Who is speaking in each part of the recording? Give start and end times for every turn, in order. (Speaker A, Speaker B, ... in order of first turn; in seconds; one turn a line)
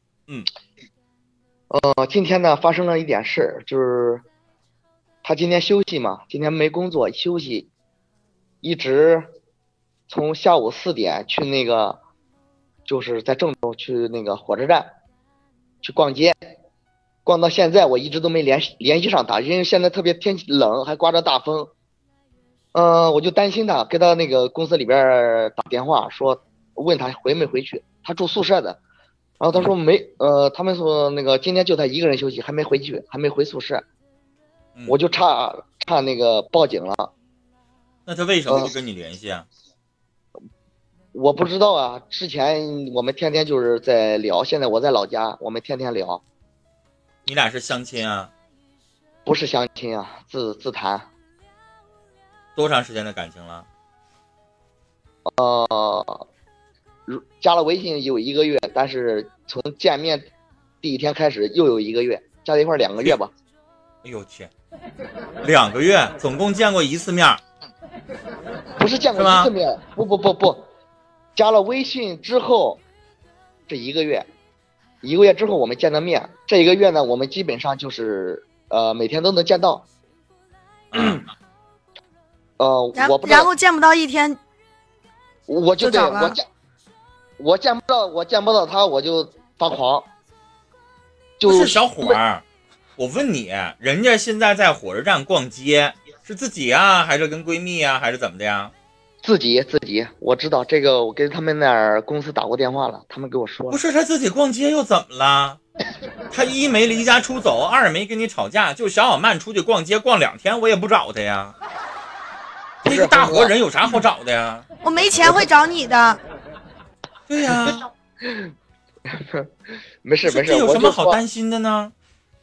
Speaker A: 1.7-4.2
Speaker A: 5.2-7.7
Speaker A: 8.6-9.3
Speaker A: 10.1-12.0
Speaker A: 12.8-14.9
Speaker A: 15.8-16.4
Speaker A: 17.2-21.7
Speaker A: 22.7-28.8
Speaker A: 29.4-33.8
Speaker A: 34.9-37.1
Speaker B: 38.0-39.5
Speaker A: 41.1-46.2
Speaker B: 47.3-48.3
Speaker A: 49.2-51.1
Speaker B: 52.5-53.7
Speaker A: 55.3-56.2
Speaker A: 57.1-60.3
Speaker A: 60.8-63.3
Speaker B: 64.0-64.5
Speaker B: 65.4-67.4
Speaker A: 68.8-70.7
Speaker B: 69.2-69.5
Speaker A: 71.4-72.8
Speaker A: 73.7-74.3
Speaker A: 75.0-79.8
Speaker B: 80.9-81.2
Speaker A: 80.9-81.2
Speaker A: 82.6-83.5
Speaker C: 82.9-84.4
Speaker A: 85.5-86.4
Speaker C: 85.8-86.4
Speaker A: 87.4-90.1
Speaker A: 91.4-92.2
Speaker B: 91.5-92.4
Speaker B: 93.0-98.7
Speaker A: 99.2-103.8
Speaker B: 103.7-105.6
Speaker B: 106.3-111.5
Speaker B: 112.8-114.7
Speaker A: 112.9-113.5
Speaker C: 114.8-116.2
Speaker B: 117.3-117.9
Speaker A: 118.2-118.5
Speaker A: 119.1-119.5
Speaker A: 120.0-121.2
Speaker B: 120.2-121.9